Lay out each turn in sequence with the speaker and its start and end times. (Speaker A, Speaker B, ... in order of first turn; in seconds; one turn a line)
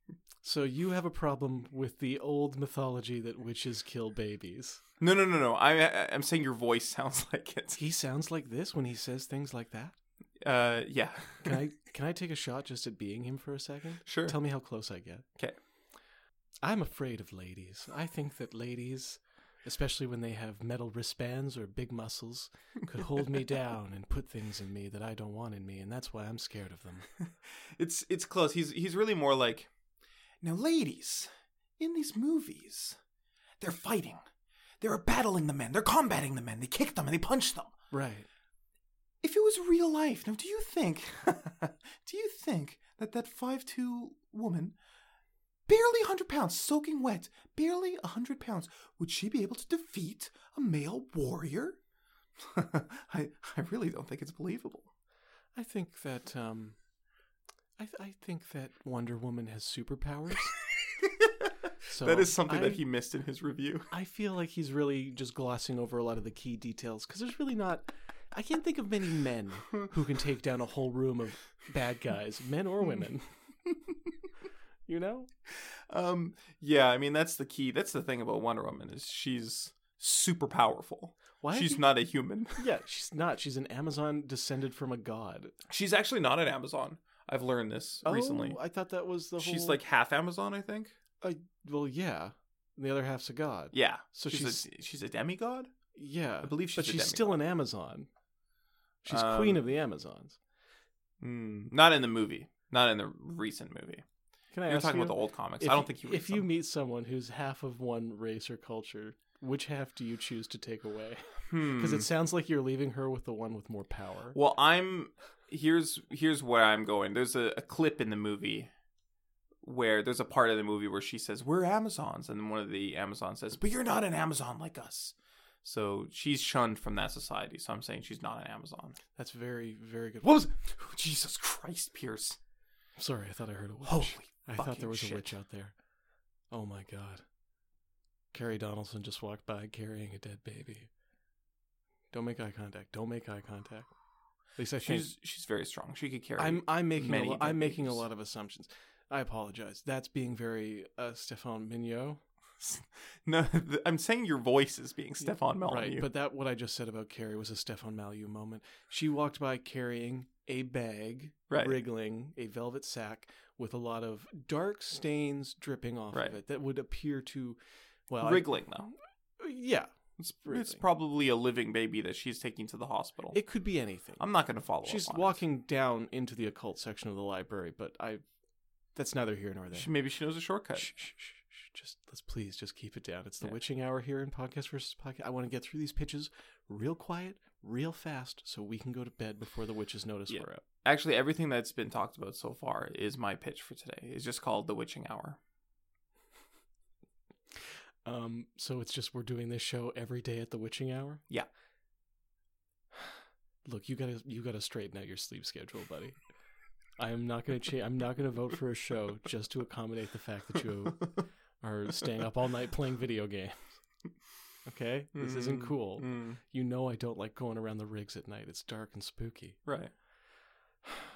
Speaker A: 0.4-4.8
Speaker B: 5.0-7.8
Speaker A: 7.7-9.9
Speaker B: 10.4-11.6
Speaker A: 11.4-15.2
Speaker B: 14.1-14.3
Speaker A: 16.6-27.1
Speaker B: 27.4-29.7
Speaker B: 30.4-33.0
Speaker B: 33.6-34.2
Speaker B: 34.8-37.7
Speaker A: 37.9-38.3
Speaker B: 39.2-44.8
Speaker B: 45.7-51.8
Speaker B: 52.4-54.9
Speaker A: 55.5-56.8
Speaker A: 57.8-60.5
Speaker B: 61.0-63.9
Speaker A: 61.9-62.8
Speaker A: 63.9-73.3
Speaker A: 74.9-75.3
Speaker B: 75.5-82.7
Speaker A: 81.4-81.8
Speaker A: 82.6-85.5
Speaker B: 85.7-88.6
Speaker A: 88.0-89.8
Speaker B: 89.4-90.9
Speaker A: 91.2-94.6
Speaker B: 93.7-95.7
Speaker A: 95.9-98.1
Speaker B: 96.4-97.4
Speaker A: 99.0-100.4
Speaker B: 99.1-99.6
Speaker B: 101.2-104.0
Speaker A: 104.5-114.4
Speaker B: 104.7-106.5
Speaker B: 111.5-112.1
Speaker B: 114.3-118.7
Speaker B: 119.6-129.0
Speaker A: 129.2-130.5
Speaker B: 130.4-132.4
Speaker A: 133.0-135.7
Speaker B: 133.8-135.2
Speaker A: 136.5-137.2
Speaker A: 138.3-140.9
Speaker A: 142.1-143.9
Speaker A: 144.5-145.1
Speaker B: 144.8-148.1
Speaker A: 146.4-152.2
Speaker B: 152.6-156.1
Speaker A: 155.6-169.9
Speaker B: 161.5-161.8
Speaker B: 168.2-168.9
Speaker B: 170.2-173.4
Speaker A: 170.4-170.8
Speaker A: 173.3-174.2
Speaker B: 174.2-175.4
Speaker A: 174.8-178.2
Speaker A: 178.9-179.9
Speaker B: 179.7-180.9
Speaker A: 180.8-190.6
Speaker B: 190.3-195.4
Speaker A: 198.0-201.2
Speaker A: 203.6-206.1
Speaker A: 207.0-213.8
Speaker A: 214.6-219.6
Speaker B: 215.1-216.4
Speaker B: 219.6-219.9